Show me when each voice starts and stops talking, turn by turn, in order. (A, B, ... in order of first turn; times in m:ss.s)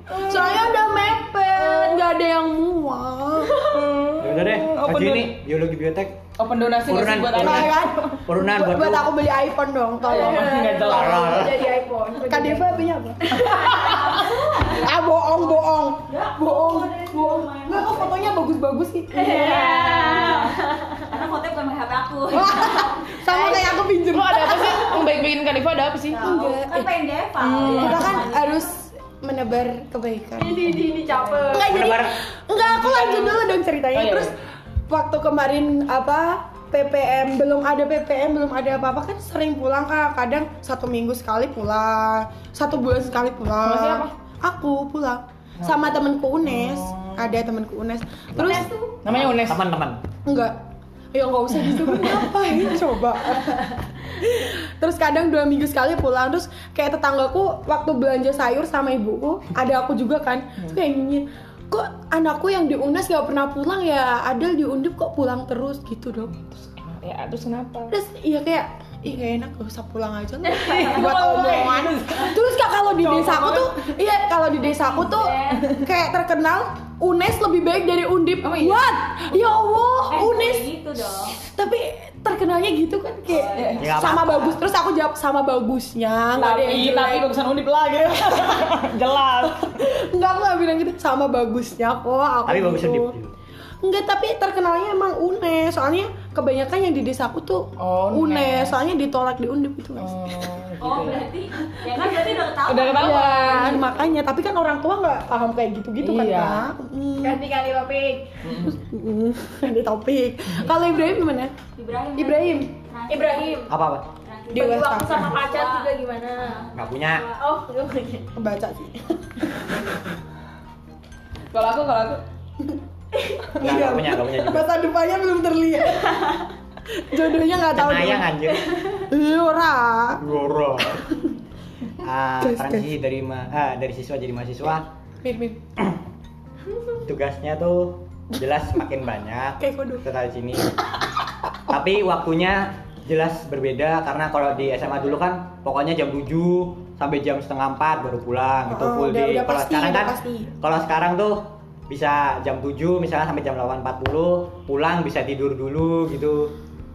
0:00.1-0:02.0 A
0:00.2-0:00.8 B
0:00.2-0:03.7 C
0:03.5-0:03.9 A
0:03.7-0:05.4 B
0:04.2-0:06.2 D
0:06.4-0:08.2 B
0:06.8-0:07.8 D
0:07.3-0:10.9 C
0:08.3-0:09.1 D
0:10.1-0:14.3 A
0:10.1-0:11.5 B
0:10.9-0:11.6 D
0:12.2-0:20.3 C
0:13.5-0:18.4 E
0:19.1-0:23.4 E
0:19.2-0:21.1 A
0:22.3-0:25.1 C
0:23.3-0:23.8 A
0:24.1-0:26.2 B
0:26.1-0:28.8 E
0:26.2-0:26.9 C
0:27.4-0:28.2 B
0:27.7-0:30.8 C
0:30.4-0:31.7 A
0:31.5-0:34.3 C
0:31.7-0:32.2 D
0:32.7-0:33.4 B
0:33.9-0:34.3 B
0:34.9-0:48.7 C
0:43.6-0:44.1 B
0:45.6-0:47.4 B
0:48.4-0:50.0 D
0:49.0-0:49.6 B
0:50.2-0:50.6 C
0:51.1-1:06.4 C
0:51.7-0:52.2 B
1:06.4-1:08.0 B
1:07.9-1:20.7 C
1:10.6-1:12.4 B
1:13.0-1:13.9 B
1:14.8-1:15.7 E
1:18.4-1:18.9 B
1:20.1-1:21.4 E
1:21.2-1:27.3 C
1:23.3-1:24.0 E
1:23.6-1:24.0 B
1:23.8-1:24.6 D
1:26.3-1:29.8 B
1:29.5-1:33.2 C
1:32.5-1:33.3 D
1:33.8-1:40.5 C
1:37.8-1:38.8 B
1:40.0-1:41.2 B
1:40.8-1:44.1 E
1:42.7-1:43.8 B
1:43.0-1:47.4 C
1:46.0-1:46.7 B
1:47.2-1:48.3 A
1:48.4-1:48.8 D
1:48.6-1:51.6 C
1:50.9-1:51.2 E
1:51.8-1:57.4 E
1:52.2-1:52.7 C
1:53.1-1:53.7 A
1:53.7-1:54.0 D
1:54.5-1:55.4 C
1:54.5-1:56.6 A
1:56.8-1:57.3 D
1:57.4-1:58.3 A
1:58.4-1:59.5 C
2:01.5-2:02.2 B
2:03.2-2:03.5 A
2:03.6-2:06.2 C
2:03.6-2:04.7 D
2:06.9-2:10.2 C
2:07.7-2:08.7 D
2:10.2-2:11.1 D
2:12.0-2:14.9 D
2:12.4-2:12.9 C
2:15.2-2:15.6 C
2:17.0-2:20.8 D
2:19.6-2:20.0 C
2:21.7-2:36.5 D
2:24.8-2:25.2 B
2:28.7-2:30.5 C